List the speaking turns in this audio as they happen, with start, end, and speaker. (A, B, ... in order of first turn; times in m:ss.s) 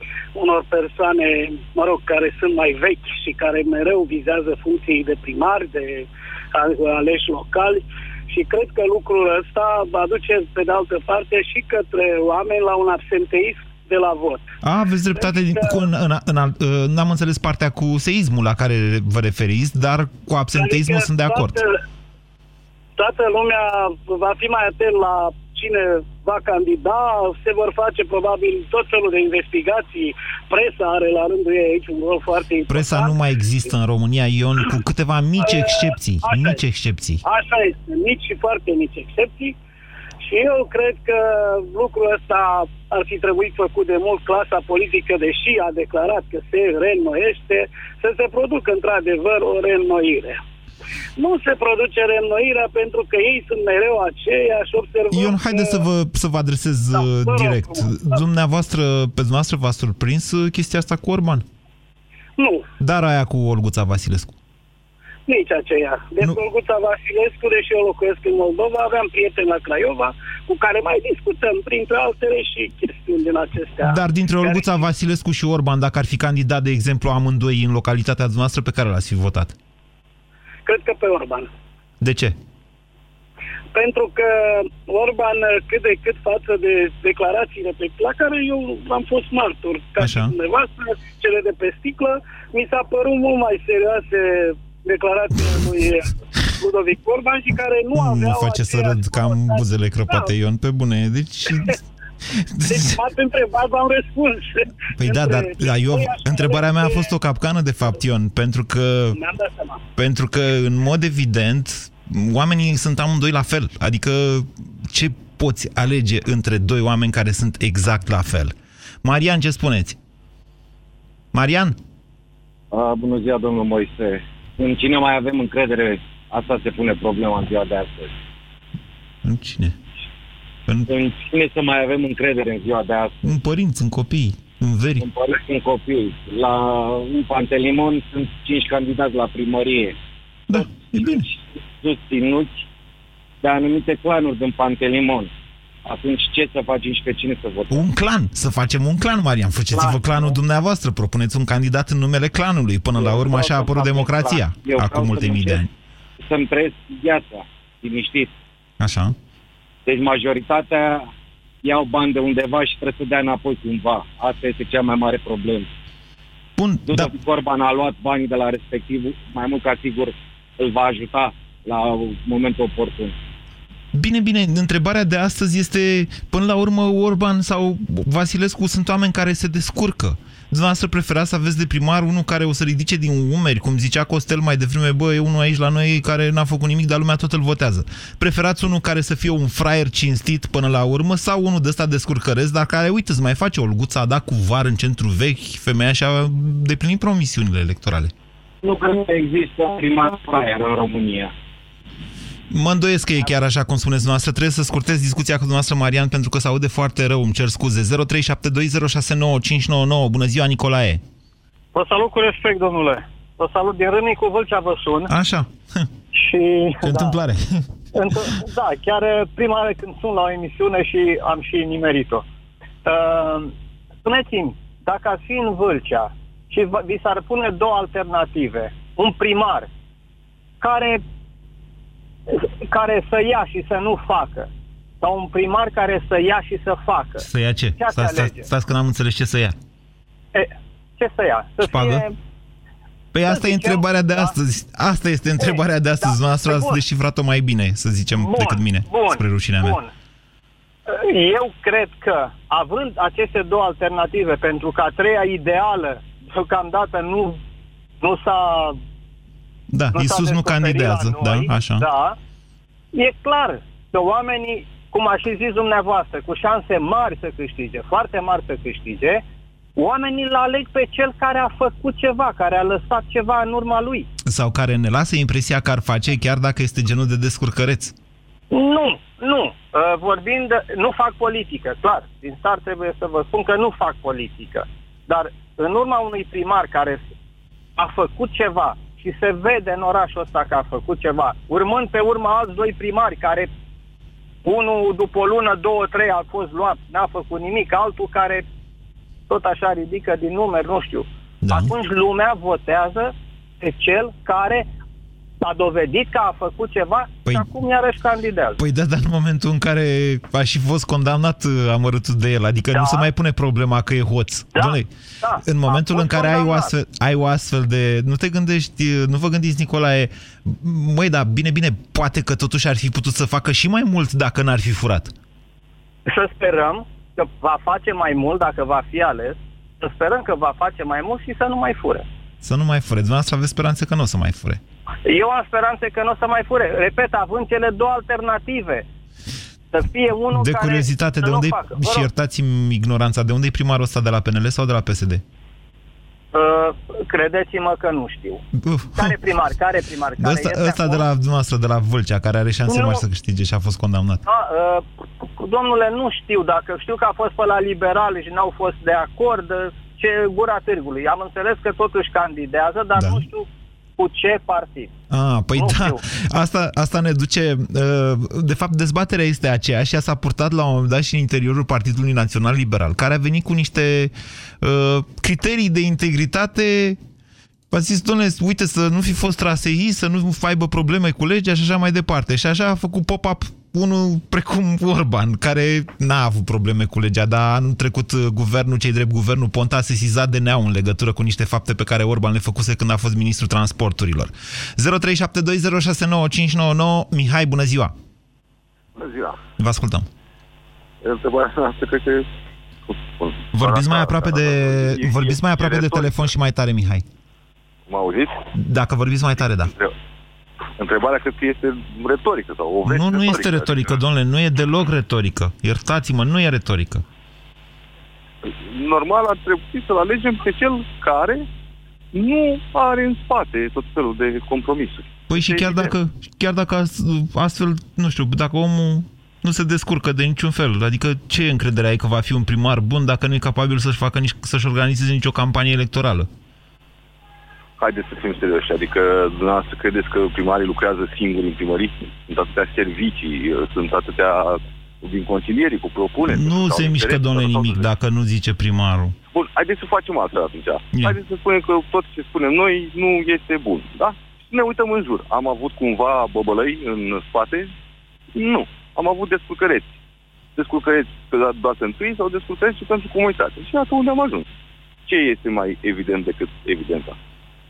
0:00.4-0:14.4 A
0:14.6-0:21.6 B
0:15.2-0:15.7 A
0:20.5-0:21.8 A
0:23.0-0:33.2 A
0:32.7-0:37.2 B
0:35.4-0:36.6 A
0:37.2-0:39.6 A
0:40.2-0:50.4 A
0:51.2-0:55.8 A
0:55.1-1:01.5 B
0:57.0-0:58.0 A
1:02.4-1:02.6 A
1:02.8-1:04.4 B
1:05.3-1:14.6 A
1:13.8-1:19.5 B
1:20.6-1:21.5 A
1:22.0-1:22.4 B
1:23.7-1:40.3 A
1:30.0-1:30.4 B
1:38.0-1:41.8 B
1:42.3-1:43.0 B
1:42.7-1:47.1 A
1:45.0-1:49.2 B
1:49.1-1:49.8 A
1:50.0-2:00.0 B
2:01.3-2:01.8 B
2:02.7-2:08.1 C
2:09.2-2:09.8 B
2:10.9-2:13.3 C
2:13.2-2:15.1 B
2:15.0-2:20.0 C
2:20.5-2:21.2 B
2:20.5-2:22.6 C
2:23.4-2:25.3 C
2:25.8-2:27.8 C
2:27.7-2:35.7 B
2:29.7-2:30.3 C
2:33.0-2:35.6 C
2:36.2-2:38.3 C
2:38.8-2:39.2 B
2:39.9-2:41.1 C
2:41.6-2:45.7 C
2:46.6-2:47.1 B
2:46.9-2:53.2 C
2:53.9-3:18.1 B
3:18.6-3:21.3 C
3:22.5-3:31.0 B
3:31.7-3:35.1 D
3:35.1-3:35.9 B
3:36.1-3:37.2 D
3:36.8-3:37.6 B
3:37.9-3:42.2 D
3:42.8-3:43.5 D
3:44.0-3:49.7 D
3:50.6-3:51.0 D
3:52.3-3:54.5 D
3:55.0-3:57.2 D
3:57.2-3:59.6 B
3:57.8-3:58.5 D
4:00.3-4:02.1 D
4:01.6-4:02.0 B
4:03.1-4:09.8 B
4:03.3-4:04.4 D
4:05.4-4:06.8 D
4:08.2-4:09.9 D
4:10.9-4:17.4 D
4:18.0-4:18.8 D
4:19.7-4:21.8 B
4:19.9-4:22.2 D
4:23.0-4:29.2 D
4:29.8-4:34.1 D
4:34.2-4:37.9 B
4:38.5-4:47.1 D
4:47.8-4:53.5 D
4:54.4-4:58.4 D
4:59.3-5:04.6 D
5:01.4-5:01.7 B
5:05.4-5:08.6 D
5:08.6-5:14.9 B
5:12.7-5:13.0 D
5:14.5-5:16.7 D
5:15.4-5:25.1 B
5:26.0-5:32.0 D
5:32.4-5:34.6 B
5:35.0-5:38.8 D
5:39.7-5:42.1 D
5:40.3-5:45.2 B
5:46.3-5:48.4 D
5:48.6-5:49.2 B
5:49.0-5:51.0 D
5:50.2-5:54.2 B
5:52.7-5:53.0 D
5:54.2-6:03.5 D
6:03.0-6:03.2 B
6:04.0-6:04.9 D
6:05.1-6:17.0 B
6:05.5-6:06.0 D
6:17.7-6:38.0 B
6:39.0-6:39.4 E
6:39.6-6:40.1 B
6:41.0-6:42.2 E
6:42.9-6:46.2 E
6:43.5-6:47.0 B
6:47.9-6:48.3 E
6:48.5-6:49.7 B
6:50.8-6:53.9 E
6:52.8-6:57.0 B
6:58.4-7:01.5 E
7:02.1-7:05.9 E
7:05.3-7:16.3 B
7:17.8-7:27.8 E
7:26.3-7:29.2 B
7:29.3-7:37.7 E
7:38.3-7:40.0 E
7:40.6-7:44.4 E
7:45.1-7:47.2 E